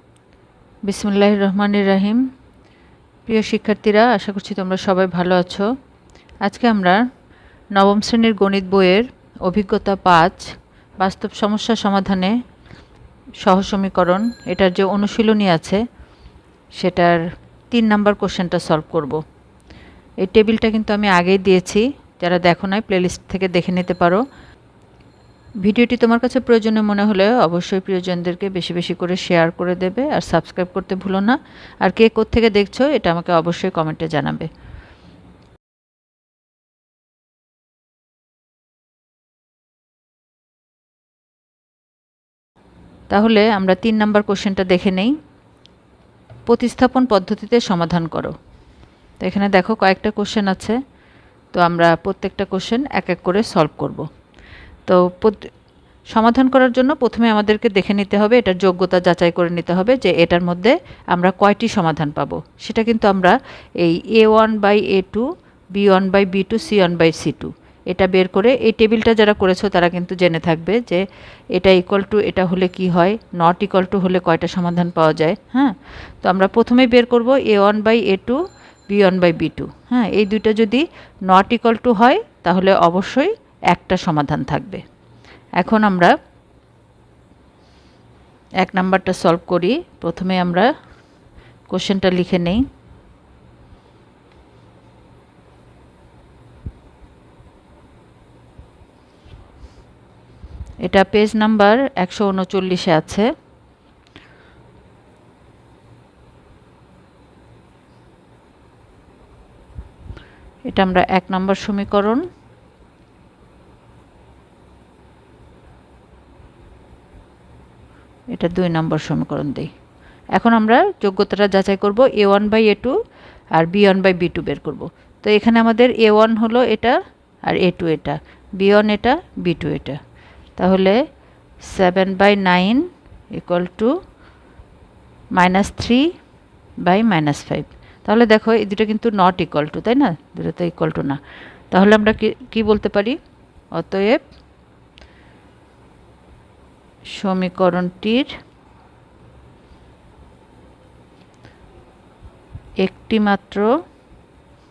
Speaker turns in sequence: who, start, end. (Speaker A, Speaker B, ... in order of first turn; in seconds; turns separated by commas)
Speaker A: 0.8-2.2, Speaker A: 3.3-5.7, Speaker A: 6.4-7.0, Speaker A: 7.7-12.3, Speaker A: 13.4-15.8, Speaker A: 16.8-17.2, Speaker A: 17.7-19.2, Speaker A: 20.2-24.2, Speaker A: 25.6-34.5, Speaker A: 43.1-45.1, Speaker A: 46.5-48.3, Speaker A: 49.2-50.8, Speaker A: 51.5-54.0, Speaker A: 54.9-55.5, Speaker A: 56.1-71.0, Speaker A: 71.5-84.8, Speaker A: 85.6-86.1, Speaker A: 88.6-90.7, Speaker A: 91.7-92.6, Speaker A: 100.8-103.3, Speaker A: 110.7-112.2, Speaker A: 118.3-119.7, Speaker A: 120.3-123.0, Speaker A: 123.5-130.0, Speaker A: 130.6-131.0, Speaker A: 131.6-133.9, Speaker A: 135.3-136.1, Speaker A: 136.8-141.2, Speaker A: 141.7-143.2, Speaker A: 143.7-144.2, Speaker A: 147.2-148.3, Speaker A: 152.8-153.7